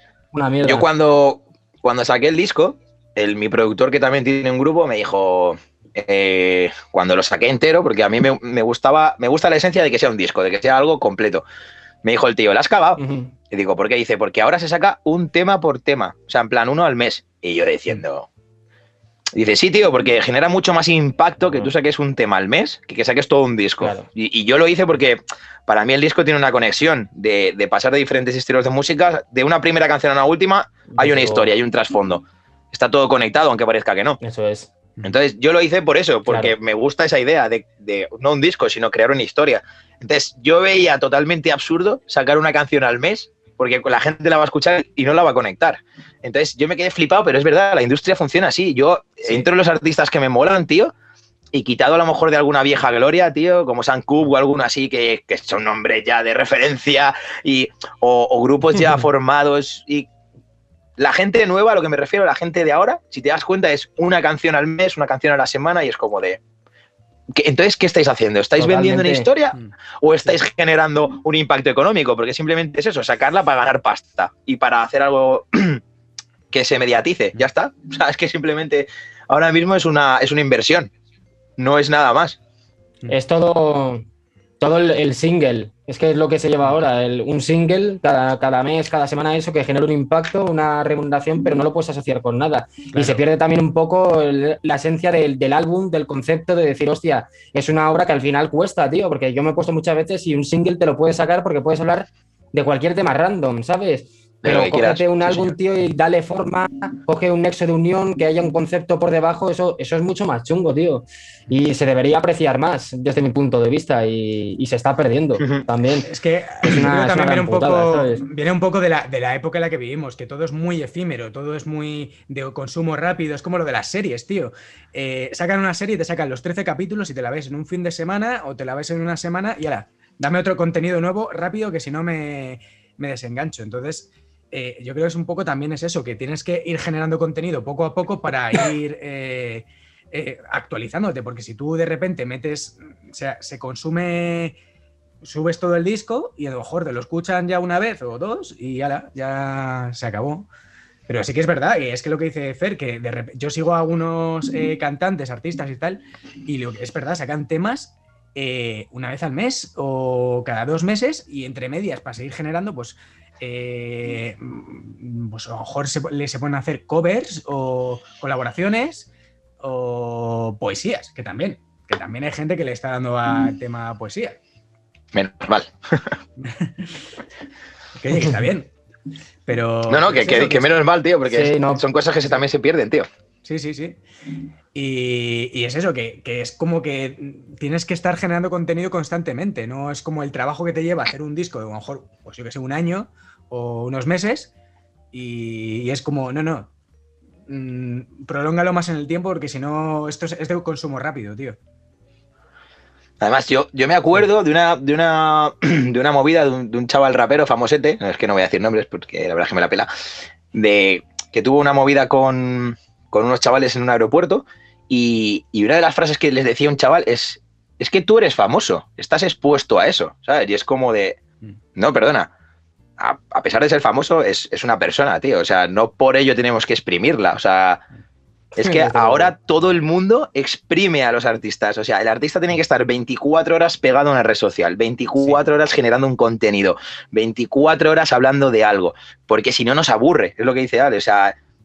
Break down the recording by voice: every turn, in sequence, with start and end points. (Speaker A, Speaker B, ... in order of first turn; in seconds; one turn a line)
Speaker A: 0.3-0.9
Speaker B: 0.7-11.4
Speaker B: 12.0-13.0
Speaker A: 13.0-13.3
Speaker B: 13.5-18.3
Speaker B: 19.3-34.2
Speaker A: 23.8-24.1
Speaker A: 30.9-31.5
Speaker A: 34.2-34.7
Speaker B: 35.0-50.9
Speaker A: 36.2-36.5
Speaker B: 51.5-60.1
Speaker B: 61.0-66.4
Speaker B: 67.3-75.8
Speaker A: 68.6-69.3
Speaker B: 76.5-80.9
Speaker B: 81.6-82.4
Speaker A: 83.1-84.0
Speaker A: 84.6-116.1
Speaker C: 92.9-93.2
Speaker B: 104.4-105.5
Speaker C: 116.0-144.6
Speaker A: 116.6-118.2
Speaker C: 145.2-150.5
Speaker C: 151.1-169.1
Speaker C: 169.6-174.4
Speaker B: 175.1-176.0
Speaker C: 176.4-176.9
Speaker C: 178.0-178.7
Speaker C: 179.4-180.8
Speaker B: 179.9-183.1
Speaker A: 181.3-181.8
Speaker C: 183.4-184.0
Speaker C: 184.7-194.5
Speaker C: 195.1-196.7
Speaker C: 197.5-201.6
Speaker B: 203.2-209.9
Speaker B: 210.5-221.2
Speaker B: 221.8-222.3
Speaker B: 223.0-227.8
Speaker A: 228.5-229.3
Speaker B: 228.6-241.3